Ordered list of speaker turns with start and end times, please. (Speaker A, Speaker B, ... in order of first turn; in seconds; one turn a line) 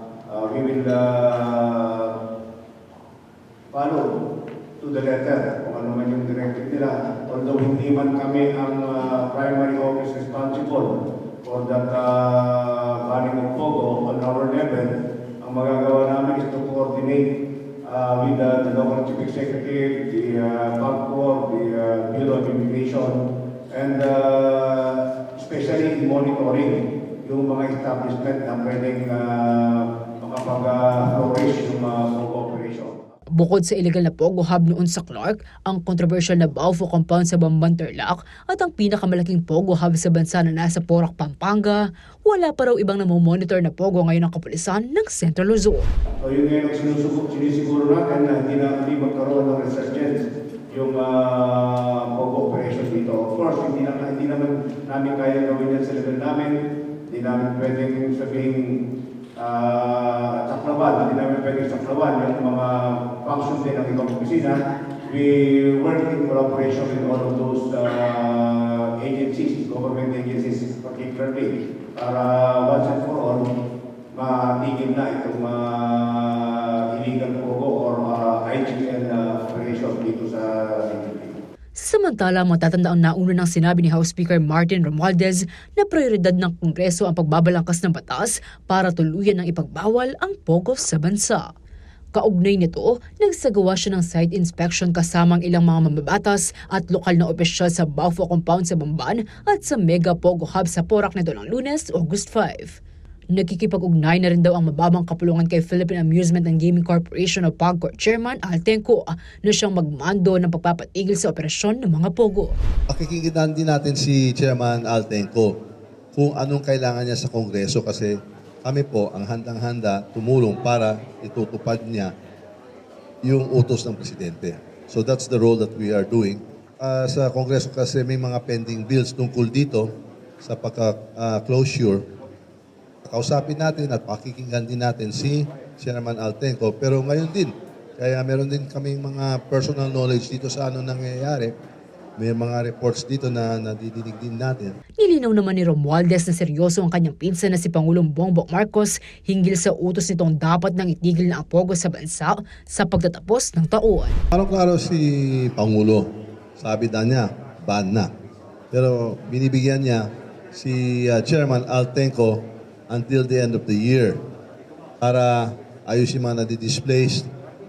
Speaker A: 0.3-2.2
Speaker A: 3.7-4.1
Speaker A: 4.8-17.3
Speaker A: 17.8-33.0
Speaker B: 33.4-45.9
Speaker A: 46.2-58.8
Speaker A: 59.4-73.5
Speaker A: 74.1-81.4
Speaker B: 81.8-91.5
Speaker B: 92.1-102.8
Speaker B: 103.3-112.5
Speaker C: 112.9-115.6
Speaker C: 116.1-122.1
Speaker C: 123.2-129.9
Speaker C: 130.4-132.1
Speaker C: 133.1-141.5
Speaker C: 142.2-144.8
Speaker B: 145.0-154.2
Speaker C: 154.3-156.1
Speaker C: 156.6-158.1
Speaker C: 158.7-164.2
Speaker C: 165.0-167.3